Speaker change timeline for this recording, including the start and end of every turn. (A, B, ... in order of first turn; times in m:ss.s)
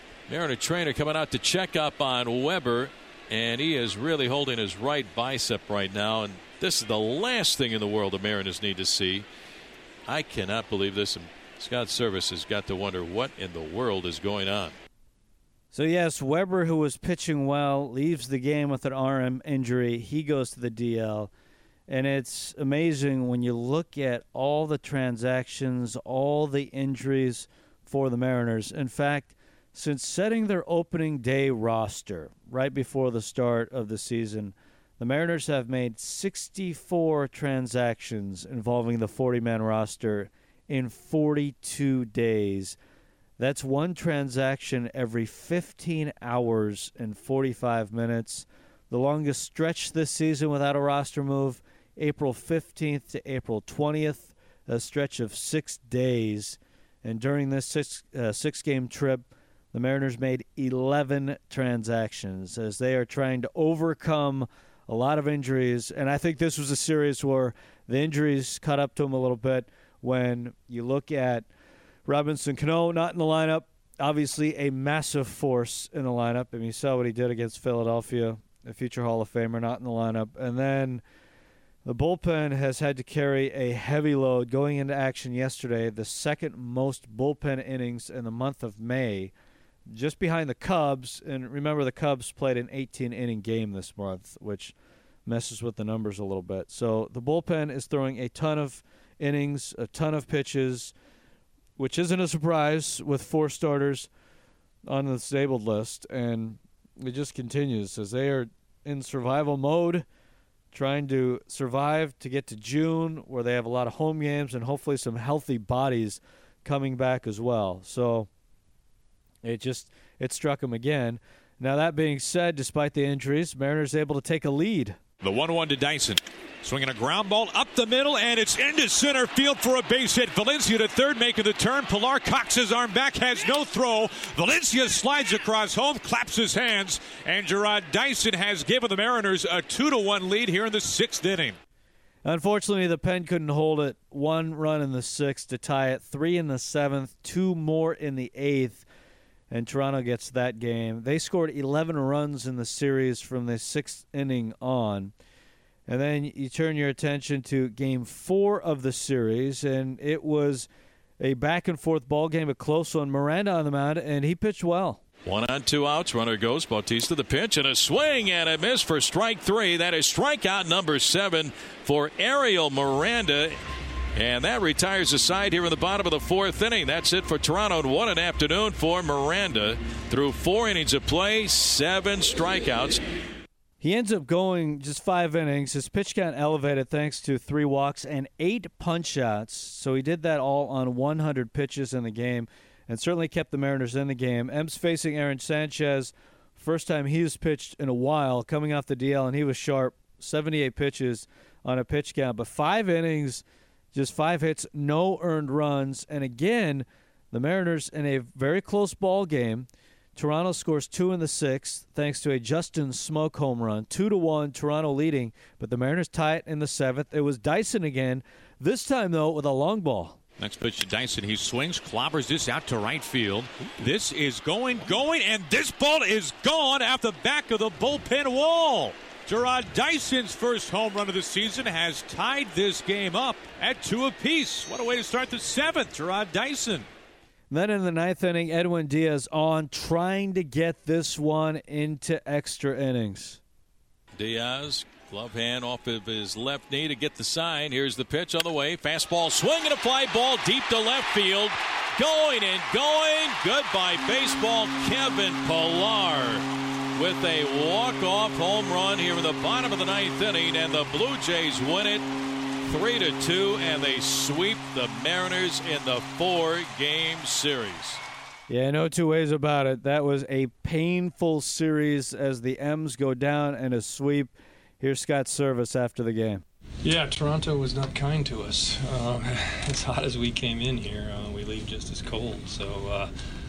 0:00.3-0:09.3 A
0:10.1-0:14.8 A
0:15.7-0:21.3 B
0:21.9-0:42.8 B
0:43.4-1:11.5 B
1:12.1-1:21.0 B
1:21.8-1:29.3 B
1:29.9-1:34.7 B
1:35.3-1:40.9 B
1:41.8-1:44.1 B
1:44.9-1:50.0 B
1:50.7-1:58.3 B
1:59.4-2:05.0 B
2:05.2-2:21.6 C
2:22.2-2:28.9 B
2:29.5-2:35.1 B
2:35.9-2:40.7 B
2:41.2-2:45.0 B
2:45.2-2:53.6 A
2:54.2-3:03.0 A
3:03.8-3:40.2 B
3:40.4-3:56.9 C
3:57.5-4:03.4 B
4:04.2-4:16.4 A
4:17.0-4:22.1 A
4:22.7-4:28.0 A
4:28.5-4:36.4 B
4:36.8-4:43.1 D